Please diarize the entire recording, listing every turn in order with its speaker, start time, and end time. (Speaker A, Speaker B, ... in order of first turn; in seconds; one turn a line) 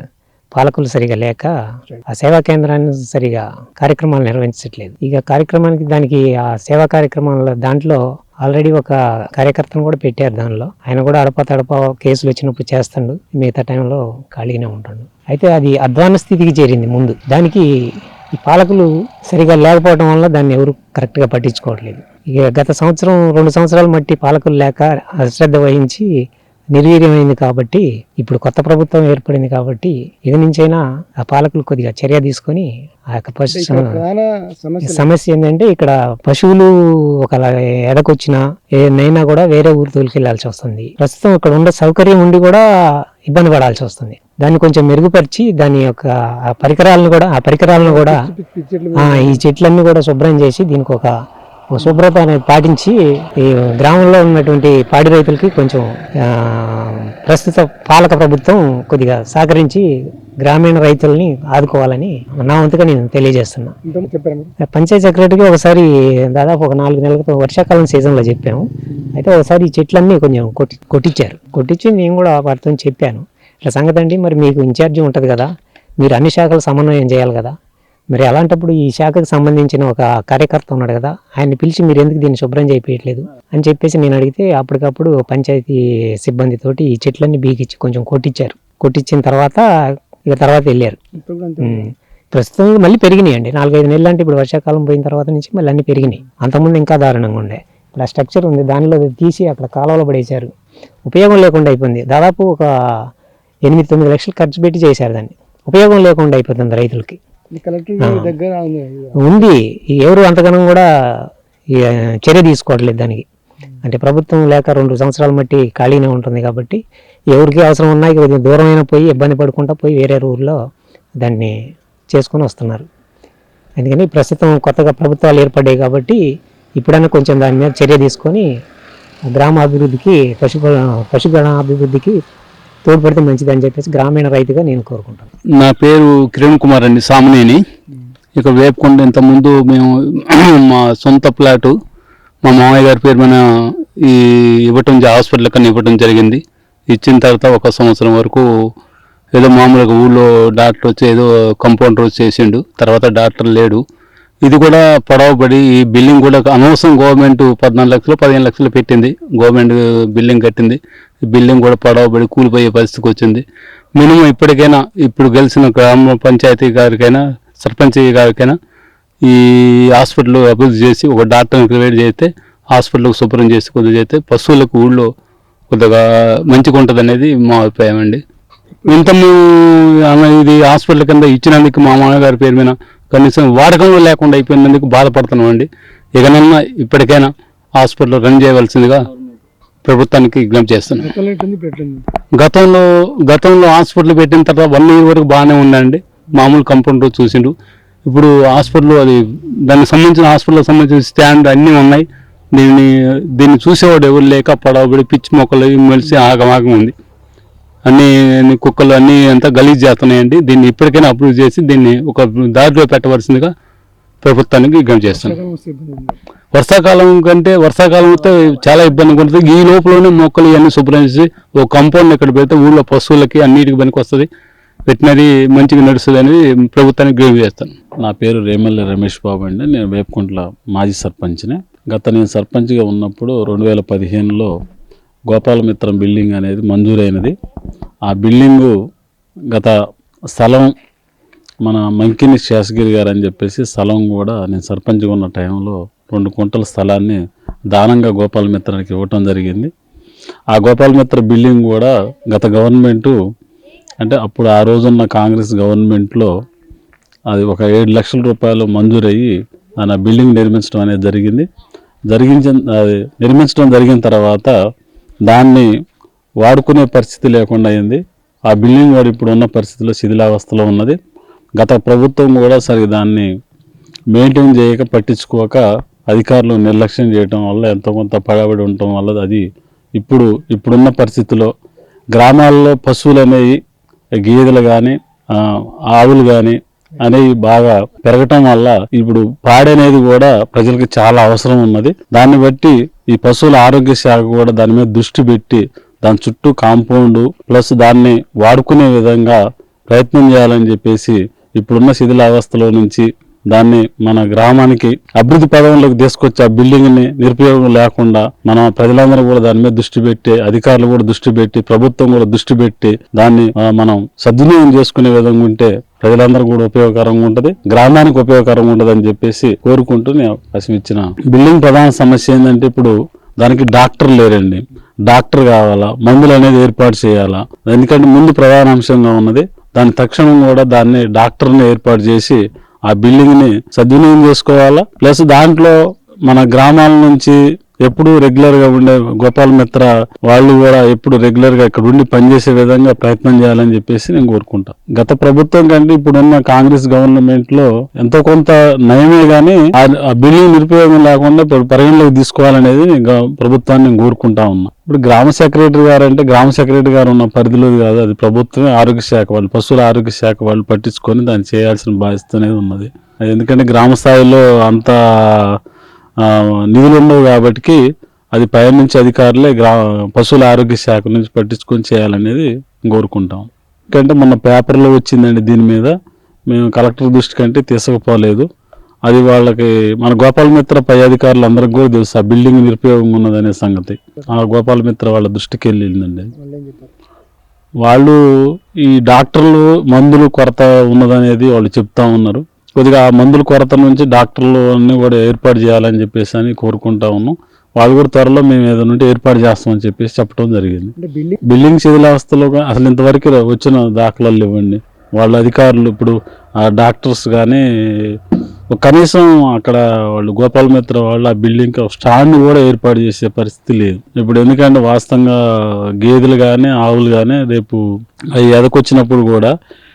Speaker A: 0.5-1.5
Speaker A: 2.1-17.6
Speaker A: 18.3-26.1
Speaker A: 26.7-34.0
Speaker B: 33.5-35.1
Speaker A: 34.8-36.7
Speaker A: 37.2-42.6
Speaker A: 43.3-48.2
Speaker B: 47.7-49.4
Speaker A: 49.0-51.1
Speaker A: 51.7-59.9
Speaker A: 60.4-63.7
Speaker B: 63.8-64.5
Speaker A: 64.6-77.5
Speaker A: 78.1-89.6
Speaker A: 90.3-91.0
Speaker B: 91.1-91.8
Speaker A: 91.6-100.5
Speaker A: 101.1-102.7
Speaker A: 103.7-107.2
Speaker B: 107.5-109.4
Speaker A: 108.0-108.3
Speaker A: 109.2-111.3
Speaker A: 111.9-113.2
Speaker A: 113.8-116.8
Speaker A: 117.3-120.6
Speaker A: 121.2-121.5
Speaker A: 122.1-122.9
Speaker A: 123.8-126.2
Speaker A: 126.8-128.4
Speaker A: 129.3-132.2
Speaker A: 132.8-135.3
Speaker C: 135.6-137.6
Speaker C: 138.3-141.7
Speaker C: 142.4-148.4
Speaker C: 149.3-153.8
Speaker C: 154.4-163.4
Speaker C: 163.9-168.6
Speaker C: 169.2-175.1
Speaker C: 175.7-178.2
Speaker B: 178.8-179.1
Speaker C: 178.9-189.0
Speaker C: 189.8-191.2
Speaker B: 191.0-192.1
Speaker C: 192.3-197.5
Speaker C: 198.1-206.9
Speaker C: 207.8-213.5
Speaker C: 214.2-215.4
Speaker B: 215.1-216.2
Speaker C: 216.5-224.3
Speaker C: 224.9-227.7
Speaker D: 228.0-234.5
Speaker D: 235.3-237.4
Speaker D: 238.1-238.7
Speaker D: 240.3-240.7
Speaker D: 241.6-247.2
Speaker D: 247.7-249.7
Speaker D: 250.5-253.1
Speaker D: 254.0-256.3
Speaker D: 257.3-261.5
Speaker D: 262.1-264.5
Speaker D: 265.3-265.7
Speaker D: 266.4-270.9
Speaker D: 271.6-273.3
Speaker D: 274.1-279.4
Speaker D: 279.9-281.5
Speaker D: 282.1-283.6
Speaker D: 284.2-299.4
Speaker D: 299.9-365.6
Speaker D: 366.2-367.8
Speaker D: 368.3-375.9
Speaker D: 376.5-378.5
Speaker D: 379.0-386.3
Speaker B: 386.4-386.9
Speaker D: 387.8-388.2
Speaker D: 388.8-400.9
Speaker B: 401.0-401.4
Speaker D: 401.4-408.2
Speaker D: 408.7-417.8
Speaker D: 418.4-419.5